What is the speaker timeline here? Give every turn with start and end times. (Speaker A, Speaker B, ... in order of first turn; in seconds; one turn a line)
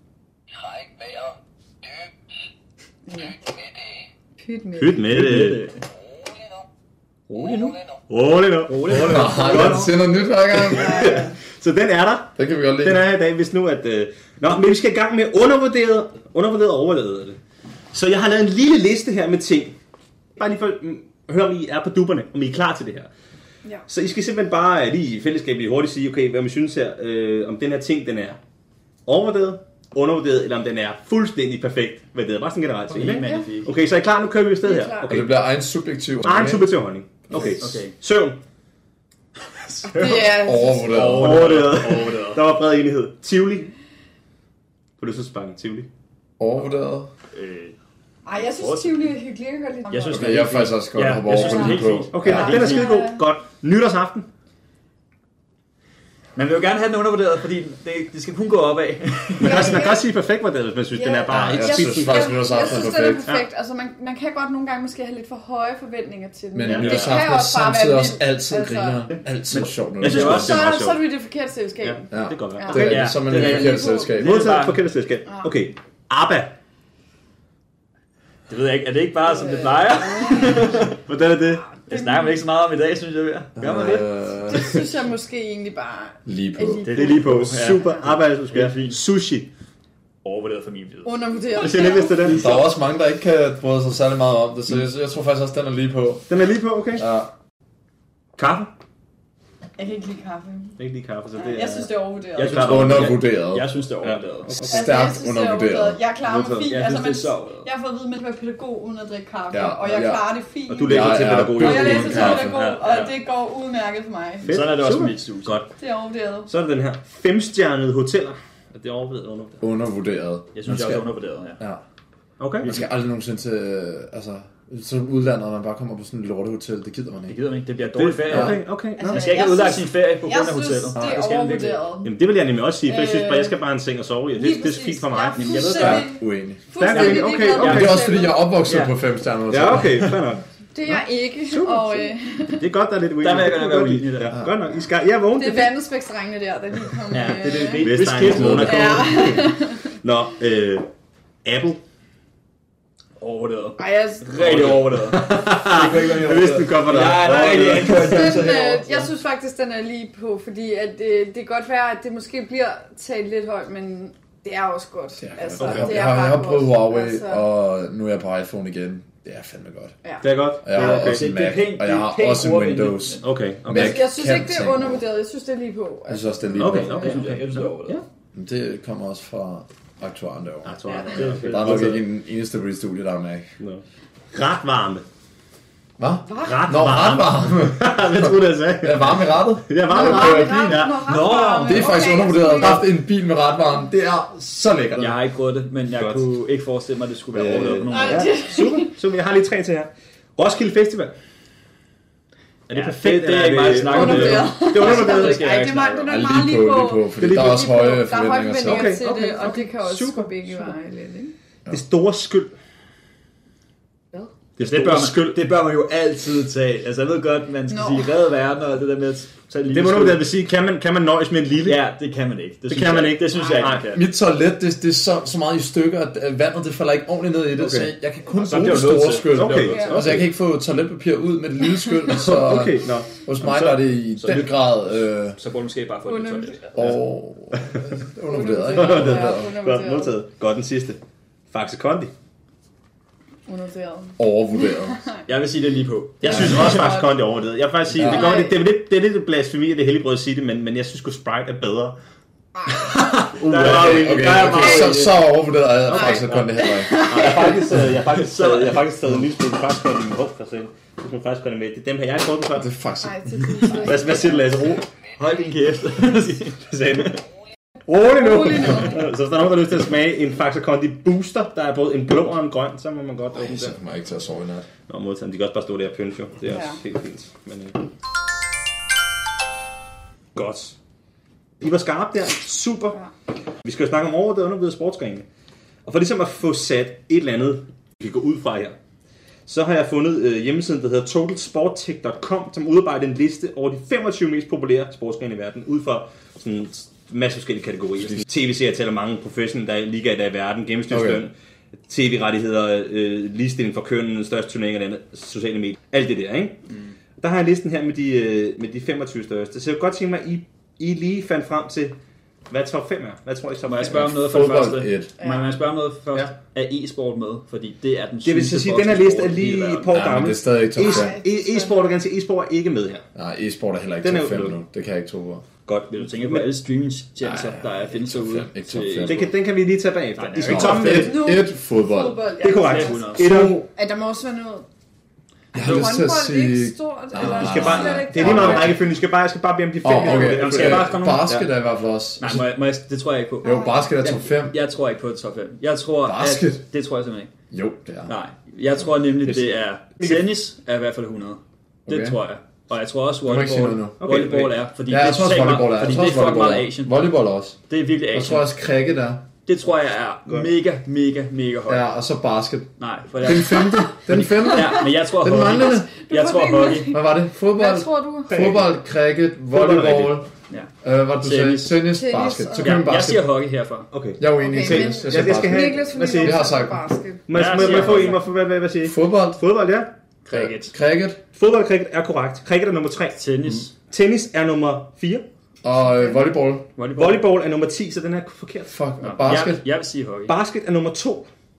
Speaker A: 3.0-3.4
Speaker A: 4.4-5.0
Speaker B: 4.8-5.6
Speaker C: 5.1-5.8
Speaker C: 7.3-7.8
Speaker B: 8.1-17.4
Speaker C: 8.7-9.9
Speaker D: 8.9-11.2
Speaker D: 12.4-13.0
Speaker B: 17.9-19.7
Speaker B: 20.4-23.1
Speaker B: 23.9-28.4
Speaker B: 29.1-35.3
Speaker C: 32.9-33.7
Speaker A: 33.1-33.5
Speaker A: 34.6-35.1
Speaker D: 35.0-36.6
Speaker B: 36.2-38.4
Speaker C: 37.3-37.9
Speaker C: 39.5-42.4
Speaker A: 39.9-40.8
Speaker D: 40.2-41.4
Speaker B: 41.1-43.7
Speaker B: 45.0-45.9
Speaker D: 46.4-47.1
Speaker C: 47.3-47.7
Speaker A: 48.2-50.5
Speaker C: 48.4-49.1
Speaker C: 49.9-52.9
Speaker D: 50.1-52.5
Speaker A: 51.4-53.2
Speaker B: 52.1-54.2
Speaker C: 56.4-59.8
Speaker A: 59.4-60.0
Speaker B: 59.4-63.5
Speaker A: 60.9-69.1
Speaker D: 61.3-63.2
Speaker D: 66.5-70.6
Speaker B: 66.7-67.2
Speaker C: 69.5-70.6
Speaker B: 70.0-71.0
Speaker A: 70.0-74.1
Speaker B: 71.8-73.1
Speaker D: 72.1-74.4
Speaker C: 72.7-74.8
Speaker B: 74.1-76.5
Speaker C: 78.5-81.0
Speaker A: 79.2-80.8
Speaker B: 81.0-81.7
Speaker A: 81.7-82.4
Speaker C: 81.9-84.1
Speaker D: 83.6-84.8
Speaker A: 84.5-88.0
Speaker D: 86.2-86.8
Speaker C: 86.8-89.0
Speaker B: 86.9-89.5
Speaker C: 90.2-91.3
Speaker A: 91.0-92.6
Speaker B: 91.5-92.5
Speaker D: 92.2-96.3
Speaker B: 96.3-97.0
Speaker D: 97.0-97.3
Speaker B: 98.4-98.7
Speaker A: 99.8-100.8
Speaker B: 100.8-103.2
Speaker A: 101.3-103.0
Speaker C: 102.3-104.5
Speaker D: 102.5-103.7
Speaker B: 104.0-105.0
Speaker D: 104.6-106.0
Speaker A: 104.6-114.5
Speaker B: 106.2-106.8
Speaker C: 106.6-107.7
Speaker D: 109.5-110.3
Speaker B: 110.7-113.1
Speaker D: 110.8-112.6
Speaker B: 114.4-115.7
Speaker C: 114.5-115.6
Speaker A: 115.8-116.5
Speaker B: 116.5-119.6
Speaker D: 119.6-121.0
Speaker C: 120.5-121.6
Speaker B: 122.4-122.7
Speaker D: 122.6-127.3
Speaker C: 122.6-122.9
Speaker C: 127.3-131.8
Speaker B: 128.0-129.3
Speaker D: 128.3-128.6
Speaker A: 129.0-132.1
Speaker D: 130.9-131.2
Speaker B: 132.0-135.7
Speaker A: 132.9-133.5
Speaker A: 134.3-138.5
Speaker C: 135.3-136.1
Speaker D: 135.8-136.6
Speaker B: 136.8-138.1
Speaker C: 136.9-138.0
Speaker D: 137.6-140.1
Speaker C: 138.6-138.9
Speaker B: 139.5-140.4
Speaker A: 140.7-142.7
Speaker B: 141.5-145.8
Speaker C: 143.2-144.3
Speaker A: 145.3-149.9
Speaker C: 147.1-149.1
Speaker B: 147.2-150.9
Speaker D: 148.3-148.7
Speaker B: 151.4-151.8
Speaker C: 153.2-159.1
Speaker A: 153.8-154.4
Speaker B: 154.4-158.6
Speaker A: 157.9-167.4
Speaker D: 165.2-169.9
Speaker B: 165.6-166.0
Speaker A: 170.0-170.3
Speaker B: 170.2-171.3
Speaker D: 170.6-175.0
Speaker C: 170.7-173.2
Speaker B: 173.2-174.1
Speaker A: 173.7-177.2
Speaker D: 176.1-177.1
Speaker B: 176.6-178.0
Speaker C: 176.9-178.0
Speaker D: 178.3-183.4
Speaker B: 180.6-182.0
Speaker C: 181.0-181.8
Speaker B: 183.6-185.0
Speaker D: 186.0-187.9
Speaker A: 186.3-186.6
Speaker B: 186.4-191.0
Speaker D: 188.8-190.9
Speaker A: 189.9-192.8
Speaker C: 191.1-192.0
Speaker D: 191.6-195.2
Speaker C: 195.0-198.4
Speaker B: 195.9-196.3
Speaker D: 197.3-197.9
Speaker B: 197.4-201.1
Speaker A: 197.9-198.9
Speaker B: 202.7-205.4
Speaker C: 202.7-206.1
Speaker A: 203.8-211.3
Speaker D: 206.1-209.0
Speaker B: 207.2-207.5
Speaker B: 208.6-210.6
Speaker B: 211.7-212.5
Speaker B: 214.6-215.4
Speaker C: 214.6-220.2
Speaker A: 217.7-218.1
Speaker B: 219.7-221.8
Speaker C: 221.6-224.1
Speaker B: 222.7-223.9
Speaker D: 223.9-235.4
Speaker B: 227.6-227.9
Speaker C: 228.4-229.9
Speaker B: 228.4-230.3
Speaker A: 229.7-230.2
Speaker B: 232.1-233.9
Speaker C: 234.2-234.8
Speaker C: 235.3-236.9
Speaker A: 236.1-236.8
Speaker D: 236.7-239.5
Speaker B: 237.6-237.8
Speaker A: 238.3-240.1
Speaker B: 238.7-241.0
Speaker B: 241.5-242.1
Speaker A: 243.5-244.2
Speaker D: 244.2-245.1
Speaker C: 245.3-246.7
Speaker B: 246.2-252.0
Speaker D: 246.3-246.7
Speaker A: 246.3-247.2
Speaker D: 247.9-248.4
Speaker A: 248.0-248.6
Speaker A: 252.5-253.0
Speaker D: 253.0-257.3
Speaker B: 253.4-254.9
Speaker C: 253.4-255.2
Speaker B: 255.9-262.7
Speaker A: 255.9-257.6
Speaker C: 258.2-258.8
Speaker D: 262.6-263.8
Speaker A: 263.0-264.5
Speaker B: 263.8-264.9
Speaker C: 265.2-267.1
Speaker B: 266.7-267.2
Speaker B: 267.9-273.8
Speaker A: 268.0-269.0
Speaker D: 273.4-274.7
Speaker B: 274.9-277.8
Speaker A: 276.5-276.8
Speaker B: 280.3-280.7
Speaker B: 281.6-283.0
Speaker B: 283.6-285.2
Speaker B: 285.9-288.8
Speaker B: 289.5-301.3
Speaker D: 300.9-301.2
Speaker B: 301.9-306.6
Speaker B: 307.2-312.0
Speaker B: 312.5-314.3
Speaker C: 313.6-319.9
Speaker D: 314.1-315.1
Speaker A: 315.2-315.5
Speaker B: 318.2-323.0
Speaker D: 319.9-321.2
Speaker A: 320.8-321.9
Speaker D: 323.1-325.4
Speaker B: 324.0-324.6
Speaker B: 325.6-326.6
Speaker C: 325.9-329.3
Speaker D: 327.2-329.2
Speaker B: 329.0-331.4
Speaker C: 330.1-331.1
Speaker D: 330.4-332.2
Speaker A: 330.8-333.1
Speaker C: 332.4-333.3
Speaker B: 332.4-333.6
Speaker D: 333.2-333.6
Speaker A: 333.7-334.7
Speaker A: 335.5-338.7
Speaker D: 335.5-338.8
Speaker B: 337.1-341.4
Speaker D: 339.8-342.5
Speaker C: 340.0-341.4
Speaker C: 342.2-347.3
Speaker A: 343.4-343.9
Speaker D: 343.4-344.6
Speaker D: 346.0-346.6
Speaker D: 347.5-348.1
Speaker C: 348.1-357.0
Speaker D: 351.9-352.2
Speaker D: 353.2-354.0
Speaker B: 354.0-354.6
Speaker D: 354.9-357.6
Speaker C: 357.7-358.5
Speaker D: 358.1-359.2
Speaker C: 359.4-361.9
Speaker D: 361.7-365.9
Speaker C: 362.8-367.0
Speaker A: 365.9-368.3
Speaker D: 366.9-370.3
Speaker B: 368.3-368.8
Speaker B: 369.5-370.2
Speaker D: 370.8-373.3
Speaker C: 371.2-371.8
Speaker A: 371.9-372.9
Speaker C: 372.6-373.9
Speaker B: 373.9-376.4
Speaker D: 374.2-376.8
Speaker A: 374.4-378.1
Speaker B: 377.3-379.9
Speaker C: 377.3-378.2
Speaker D: 377.6-378.1
Speaker D: 378.8-379.4
Speaker C: 380.2-380.7
Speaker D: 380.3-381.2
Speaker B: 381.3-383.2
Speaker C: 383.1-383.7
Speaker B: 383.8-385.2
Speaker D: 385.6-386.7
Speaker C: 386.8-387.2
Speaker B: 386.9-388.7
Speaker D: 388.7-389.6
Speaker C: 389.0-390.3
Speaker B: 390.3-391.3